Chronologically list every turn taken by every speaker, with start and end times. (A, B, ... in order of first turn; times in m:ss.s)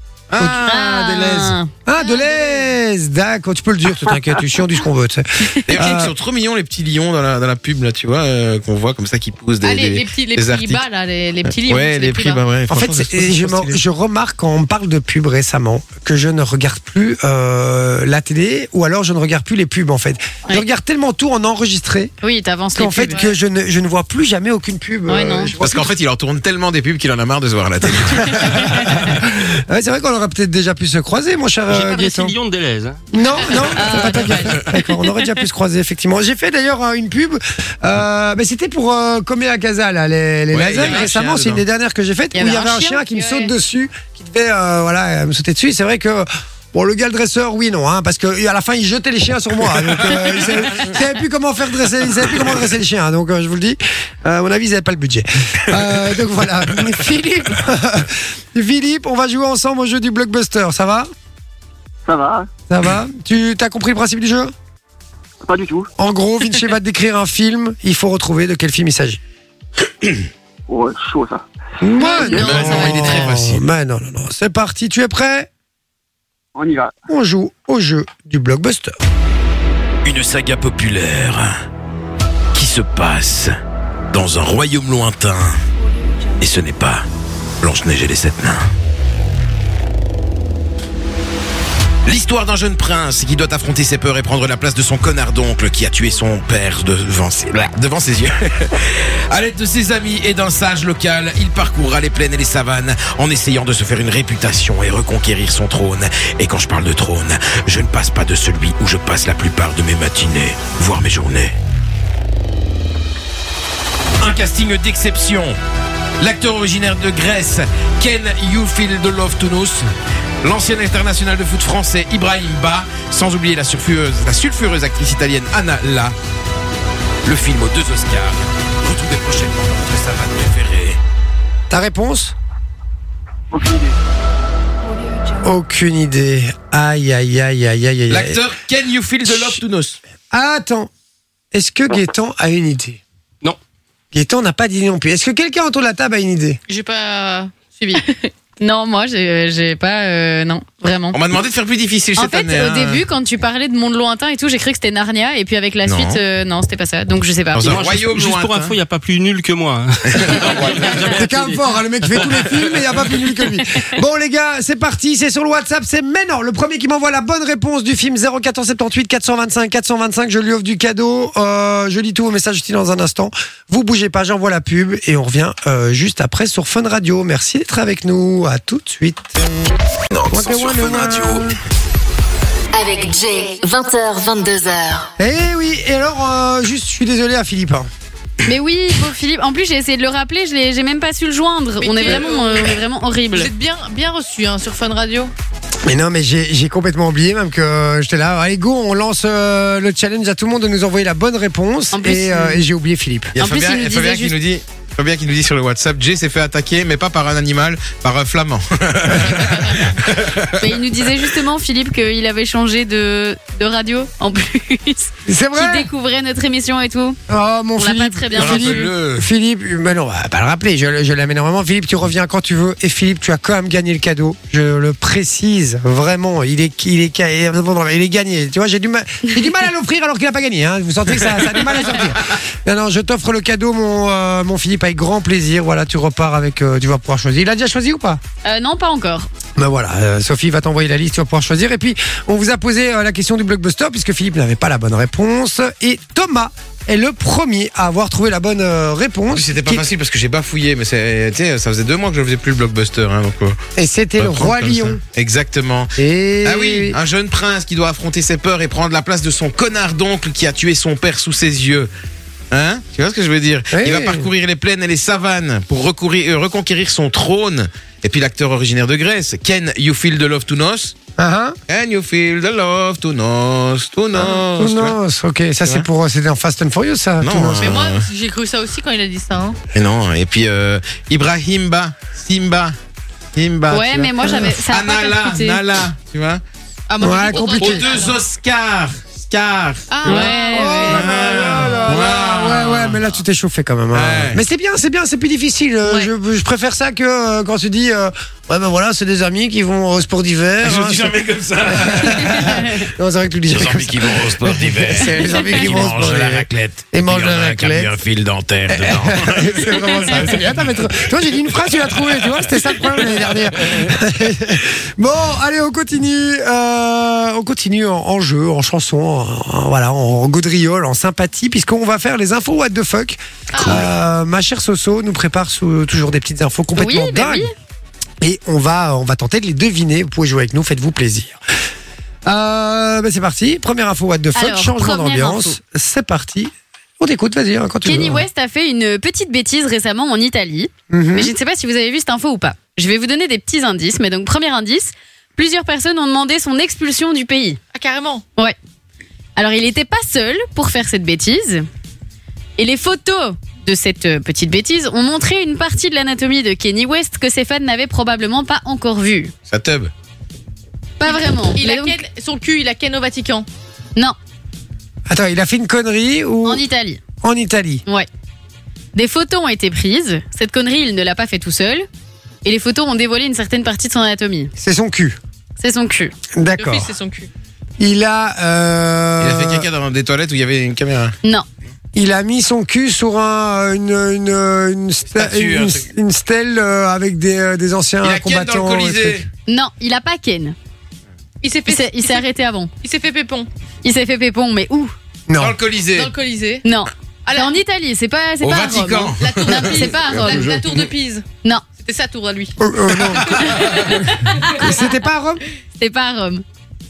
0:00.3-0:01.5 A
0:00.4-0:00.6 B
0:00.6-0:01.7 C
0:01.8-0:06.1 B
0:02.0-0:02.7 D
0:05.6-0:10.8 A
0:09.6-0:12.4 D
0:11.4-0:13.8 A
0:12.7-0:22.1 B
0:22.2-0:23.2 C
0:22.7-0:25.9 B
0:23.1-0:23.3 D
0:25.1-0:25.5 C
0:25.6-0:29.1 A
0:28.0-0:32.4 B
0:31.7-0:33.0 E
0:33.1-1:01.1 B
0:33.3-0:33.6 D
0:33.6-0:35.1 C
0:40.5-0:41.6 A
0:42.3-0:43.4 C
1:02.0-1:02.5 F
1:02.7-1:04.5 B
1:05.4-1:05.9 F
1:06.0-1:09.2 B
1:10.7-1:11.5 F
1:11.8-1:15.5 B
1:12.0-1:13.3 D
1:12.0-1:13.0 C
1:12.3-1:13.6 A
1:16.6-1:16.9 F
1:17.1-1:18.9 B
1:20.0-1:21.5 A
1:22.5-1:23.5 A
1:24.1-1:25.6 A
1:26.4-1:27.0 A
1:27.6-1:28.7 A
1:32.0-1:51.5 A
1:54.2-1:55.6 A
1:56.2-1:59.9 A
2:00.4-2:06.1 A
2:07.2-2:11.0 A
2:11.7-2:12.3 B
2:13.5-2:14.0 F
2:15.4-2:18.4 B
2:18.1-2:20.0 A
2:19.3-2:19.6 B
2:20.3-2:20.9 B
2:21.5-2:23.0 B
2:24.1-2:26.6 B
2:26.7-2:28.3 D
2:28.6-2:31.2 C
2:31.1-2:33.0 A
2:32.2-2:37.8 C
2:35.8-2:36.2 A
2:37.5-2:38.8 A
2:37.6-2:38.7 G
2:37.7-2:39.9 E
2:40.1-2:41.2 A
2:40.1-2:41.1 G
2:41.0-2:59.4 B
3:00.1-3:01.5 G
3:00.3-3:01.6 B
3:02.7-3:05.1 H
3:05.2-3:07.9 B
3:08.4-3:13.5 C
3:11.8-3:12.8 D
3:13.3-3:15.3 D
3:15.8-3:23.3 B
3:21.9-3:22.6 C
3:23.3-3:30.8 A
3:23.4-3:24.3 C
3:29.2-3:30.0 D
3:30.6-3:37.2 C
3:35.2-3:35.9 B
3:37.3-3:58.2 B
3:37.8-3:38.9 C
3:38.3-3:39.3 A
3:58.4-3:59.3 C
3:59.6-4:09.8 B
4:09.3-4:13.6 A
4:13.8-4:15.0 B
4:14.2-4:15.9 A
4:16.0-4:17.0 B
4:16.4-4:21.9 A
4:22.5-4:30.9 A
4:23.7-4:24.3 B
4:31.2-4:31.6 B
4:31.7-4:35.0 A
4:34.1-4:37.7 B
4:37.2-4:38.1 A
4:37.6-4:39.6 D
4:39.7-4:42.8 A
4:43.3-4:46.4 A
4:43.7-4:45.6 C
4:44.2-4:44.6 B
4:46.9-4:48.2 D
4:47.0-4:47.8 B
4:47.3-4:53.0 A
4:49.9-4:51.8 D
4:50.0-4:51.0 C
4:50.5-5:08.0 B
4:53.9-4:54.4 A
5:00.6-5:02.7 A
5:02.4-5:02.7 C
5:03.5-5:10.9 A
5:08.7-5:27.5 B
5:11.6-5:13.9 A
5:23.5-5:23.8 D
5:26.8-5:27.5 C
5:28.2-5:31.4 B
5:32.2-5:38.2 B
5:34.3-5:35.6 C
5:37.8-5:47.6 C
5:40.9-5:41.3 B
5:47.7-5:48.2 D
5:49.4-5:51.7 C
5:52.6-5:59.3 C
5:59.5-5:59.9 A
6:01.0-6:02.0 C
6:01.0-6:03.5 D
6:05.1-6:06.6 B
6:06.4-6:07.0 C
6:07.2-6:07.8 B
6:08.9-6:11.9 C
6:12.4-6:14.5 C
6:14.6-6:15.2 B
6:15.6-6:16.1 C
6:16.4-6:16.9 B
6:16.5-6:17.3 D
6:17.8-6:19.7 B
6:19.2-6:21.1 A
6:21.9-6:29.2 B
6:25.1-6:25.8 A
6:28.0-6:29.3 A
6:29.5-6:30.6 C
6:31.4-6:32.2 D
6:31.7-6:32.7 C
6:32.8-6:33.5 D
6:33.8-6:34.9 C
6:35.3-6:35.6 B
6:35.4-6:36.1 A
6:35.9-6:36.6 D
6:36.6-6:40.4 C
6:37.2-6:37.6 D
6:38.4-6:40.9 A
6:39.2-6:41.2 D
6:41.8-6:42.6 D
6:42.6-6:43.5 B
6:43.2-6:44.1 D
6:43.3-6:43.9 A
6:44.6-6:45.4 B
6:45.8-6:46.4 C